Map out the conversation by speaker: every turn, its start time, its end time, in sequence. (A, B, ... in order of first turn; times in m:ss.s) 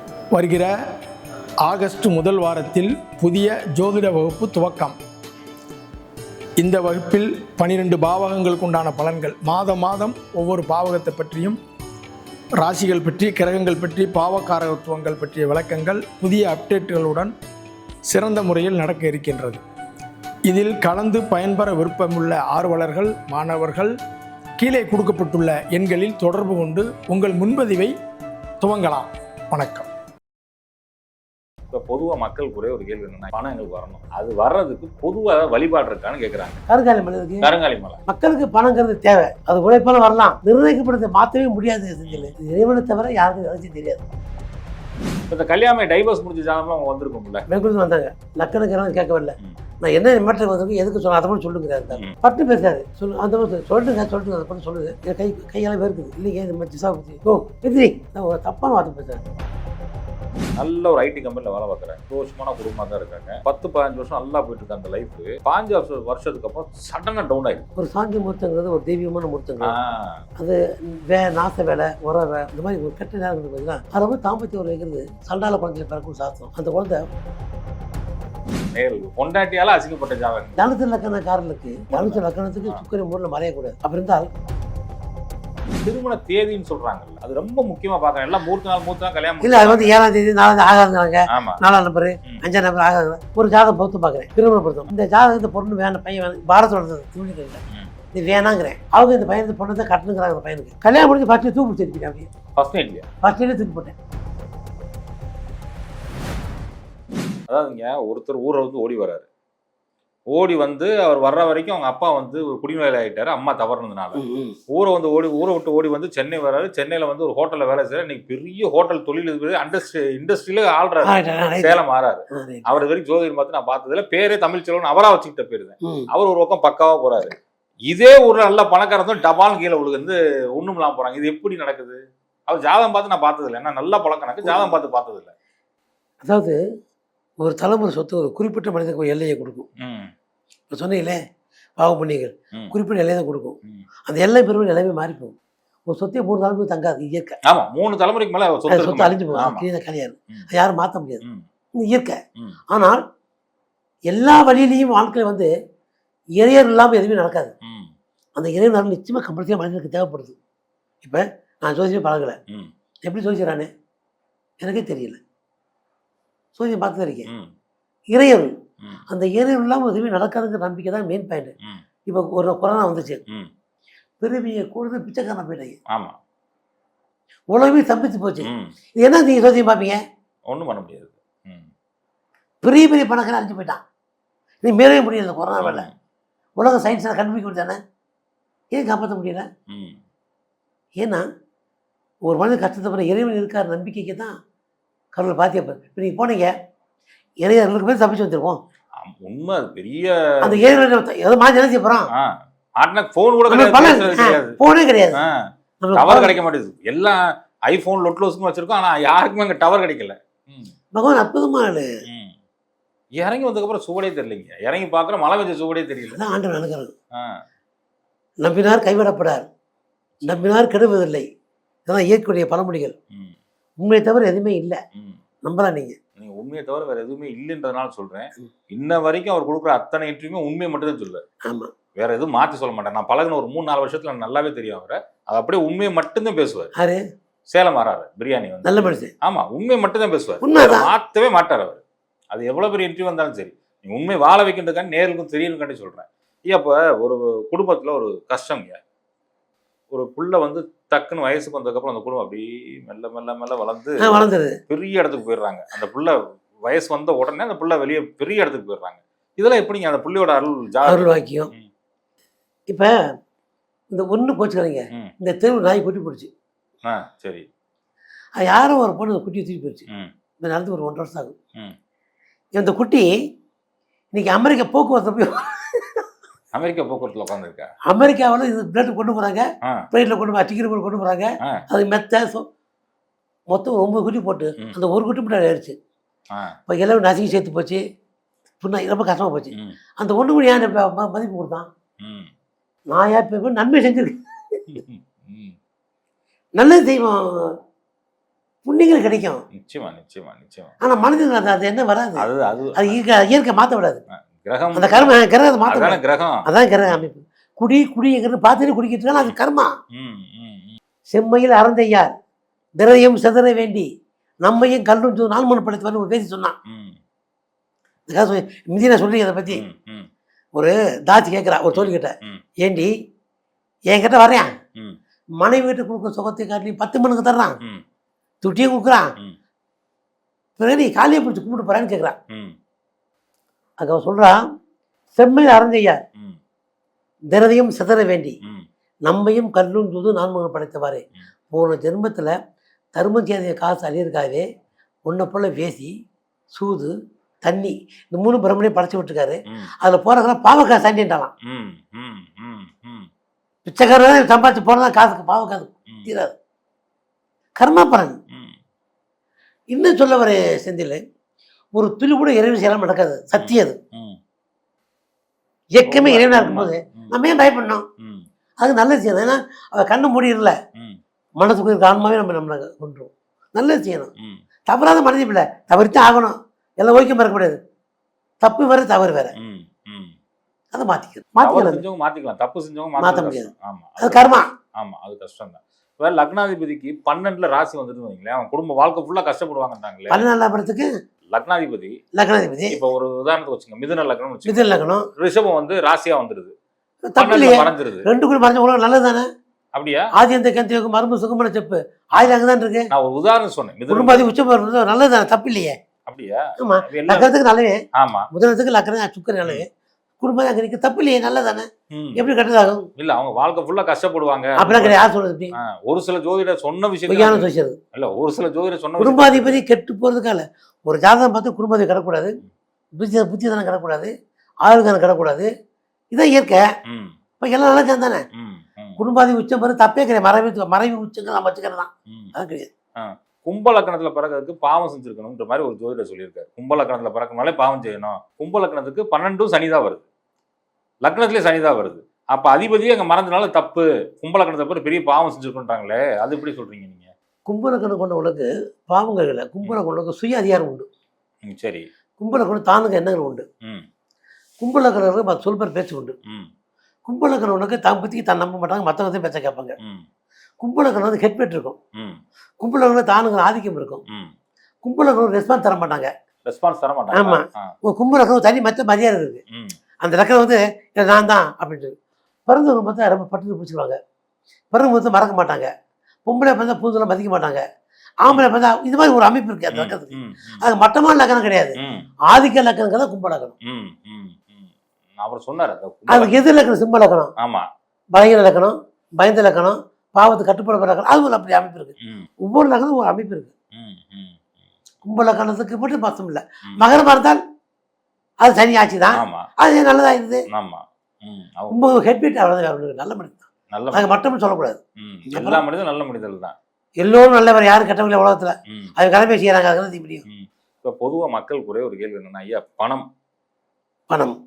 0:00.3-0:00.7 A
0:01.6-0:05.0 A
0:06.6-0:11.6 A
0:12.6-0:17.3 A
0:18.1-0:19.6 A
0:20.5-0:24.0 A
0:24.6-0:28.0 A
0:28.6-0:29.9 A
0:31.7-0:36.6 B
0:36.7-0:37.5 C
0:37.4-0:38.0 B
0:38.1-0:44.0 C
0:45.3-0:47.4 B
0:47.5-0:59.2 C
1:00.6-1:07.7 B
1:07.8-1:09.8 C
1:09.6-1:10.2 B
1:10.4-1:17.1 C
1:18.7-1:20.6 B
1:20.6-1:24.3 C
1:21.9-1:22.8 B
1:25.8-1:29.9 B
1:29.4-1:37.6 C
1:31.3-1:31.6 B
1:38.1-1:42.3 C
1:42.6-1:43.1 B
1:43.2-1:43.9 C
1:47.5-1:49.2 B
1:50.3-2:07.4 B
1:54.2-1:54.6 C
2:01.0-2:01.8 C
2:02.3-2:02.6 C
2:05.8-2:06.1 C
2:07.9-2:15.3 B
2:14.5-2:14.7 C
2:16.2-2:16.6 C
2:17.4-2:19.7 C
2:19.8-2:20.1 B
2:20.7-2:21.2 C
2:21.8-2:25.4 C
2:25.9-2:27.4 C
2:27.5-2:29.7 B
2:28.7-2:31.2 C
2:31.8-2:32.2 C
2:32.7-2:33.0 C
2:34.1-2:35.5 C
2:36.4-2:37.5 C
2:37.6-2:37.9 B
2:38.4-2:40.4 C
2:41.0-2:42.4 C
2:43.0-2:43.7 C
2:44.6-2:45.2 C
2:46.6-2:47.3 C
2:47.3-2:47.5 B
2:48.1-2:48.5 C
2:49.1-2:51.5 C
2:52.1-2:53.2 C
2:54.2-2:55.8 C
2:55.9-2:56.2 B
2:57.5-3:00.0 C
2:58.4-2:58.7 B
3:00.5-3:01.7 B
3:02.6-3:03.8 C
3:04.6-3:05.9 C
3:05.6-3:05.9 B
3:06.6-3:07.8 C
3:08.7-3:09.5 C
3:09.7-3:10.0 B
3:11.0-3:11.3 C
3:12.3-3:14.4 C
3:15.2-3:16.5 C
3:17.4-3:18.6 C
3:19.0-3:20.8 B
3:20.4-3:22.1 C
3:22.1-3:24.6 B
3:23.5-3:25.2 C
3:25.2-3:30.7 B
3:25.8-3:26.3 C
3:31.0-3:31.9 C
3:32.1-3:32.4 B
3:33.2-3:36.2 B
3:36.1-3:36.9 C
3:37.2-3:37.4 B
3:38.4-3:39.5 C
3:40.3-3:41.3 C
3:41.9-3:43.0 C
3:43.8-3:44.8 C
3:45.4-3:46.0 C
3:46.2-3:51.2 B
3:51.5-3:51.7 C
3:52.0-3:56.7 B
3:56.8-3:57.0 C
3:57.5-4:01.8 B
3:58.6-3:59.1 C
4:00.4-4:00.9 C
4:02.3-4:08.8 B
4:09.9-4:21.7 B
4:14.0-4:14.6 C
4:20.9-4:21.5 C
4:23.9-4:26.3 C
4:26.8-4:27.5 B
4:28.4-4:29.8 C
4:30.4-4:31.4 C
4:32.6-4:33.1 C
4:34.2-4:36.0 C
4:36.5-4:37.7 B
4:37.9-4:42.5 C
4:43.5-4:45.8 C
4:46.7-4:47.8 C
4:48.6-4:51.7 C
4:52.0-4:52.3 B
4:52.9-4:54.7 C
4:54.7-4:55.6 B
4:56.6-4:57.6 C
4:58.7-4:59.4 C
4:59.5-5:00.8 B
5:00.8-5:02.2 C
5:02.2-5:03.0 B
5:02.8-5:04.0 C
5:04.1-5:05.2 B
5:04.8-5:09.7 C
5:05.7-5:07.0 B
5:09.9-5:10.8 B
5:11.1-5:12.1 C
5:12.8-5:13.9 C
5:14.4-5:16.6 C
5:16.7-5:17.0 B
5:18.1-5:19.6 C
5:19.5-5:20.1 B
5:20.6-5:22.9 C
5:21.7-5:22.4 B
5:23.9-5:24.5 C
5:25.4-5:27.6 C
5:28.4-5:29.1 C
5:30.6-5:32.2 C
5:32.3-5:32.6 B
5:33.8-5:34.4 C
5:35.2-5:36.0 C
5:37.3-5:38.4 C
5:39.1-5:42.4 C
5:43.0-5:44.5 C
5:45.1-5:45.9 C
5:46.5-5:46.9 C
5:47.4-5:51.3 C
5:51.4-5:53.1 B
5:53.7-5:56.3 C
5:57.6-5:58.2 C
5:58.3-5:58.6 B
5:59.7-6:01.0 C
6:01.8-6:03.8 C
6:03.4-6:04.2 B
6:05.8-6:07.9 C
6:05.8-6:07.1 B
6:08.0-6:08.3 B
6:08.6-6:10.6 C
6:10.8-6:11.0 B
6:11.4-6:14.1 C
6:14.2-6:14.4 B
6:14.7-6:17.6 C
6:18.4-6:19.3 C
6:19.4-6:20.2 B
6:20.7-6:21.8 C
6:21.4-6:30.2 B
6:23.0-6:24.5 C
6:30.1-6:30.9 C
6:31.3-6:32.0 B
6:32.2-6:32.8 C
6:32.7-6:36.5 B
6:34.5-6:35.1 C
6:37.1-6:39.3 C
6:37.2-6:38.1 B
6:39.7-6:40.1 B
6:40.1-6:42.9 C
6:42.9-6:44.3 B
6:43.9-6:45.8 C
6:46.1-6:47.3 B
6:46.6-6:47.8 C
6:48.0-6:48.3 B
6:48.3-6:49.7 C
6:50.2-6:52.8 C
6:51.9-6:52.2 B
6:53.0-6:59.6 B
6:54.6-6:55.6 C
6:57.1-6:57.8 C
6:59.0-7:02.3 C
7:03.0-7:04.1 C
7:04.6-7:05.5 C
7:06.1-7:06.7 C
7:06.8-7:07.2 B
7:07.4-7:08.2 C
7:08.3-7:09.0 B
7:09.0-7:12.7 C
7:13.0-7:20.0 B
7:21.0-7:27.1 B
7:27.5-7:30.9 C
7:31.5-7:31.9 B
7:32.2-7:33.5 C
7:34.6-7:36.2 C
7:37.1-7:39.8 C
7:39.8-7:40.1 B
7:40.6-7:41.8 C
7:42.6-7:44.0 C
7:44.1-7:44.3 B
7:44.8-7:46.1 C
7:46.4-7:47.7 B
7:47.1-7:49.4 C
7:49.5-7:49.8 B
7:50.0-7:51.9 C
7:52.5-7:54.0 C
7:54.7-7:55.7 C
7:56.3-7:57.6 C
7:58.2-8:03.6 C
7:59.7-8:00.6 B
8:01.8-8:02.1 B
8:03.6-8:06.4 B
8:06.1-8:07.3 C
8:07.4-8:07.7 B
8:08.2-8:13.5 C
8:12.0-8:12.3 B
8:13.7-8:14.4 B
8:15.0-8:17.4 C
8:18.4-8:20.4 C
8:19.2-8:19.5 B
8:20.5-8:21.8 B
8:21.7-8:25.6 C
8:23.7-8:24.2 B
8:25.0-8:26.6 B
8:27.0-8:30.2 C
8:28.7-8:28.9 B
8:30.3-8:33.1 B
8:34.1-8:34.4 C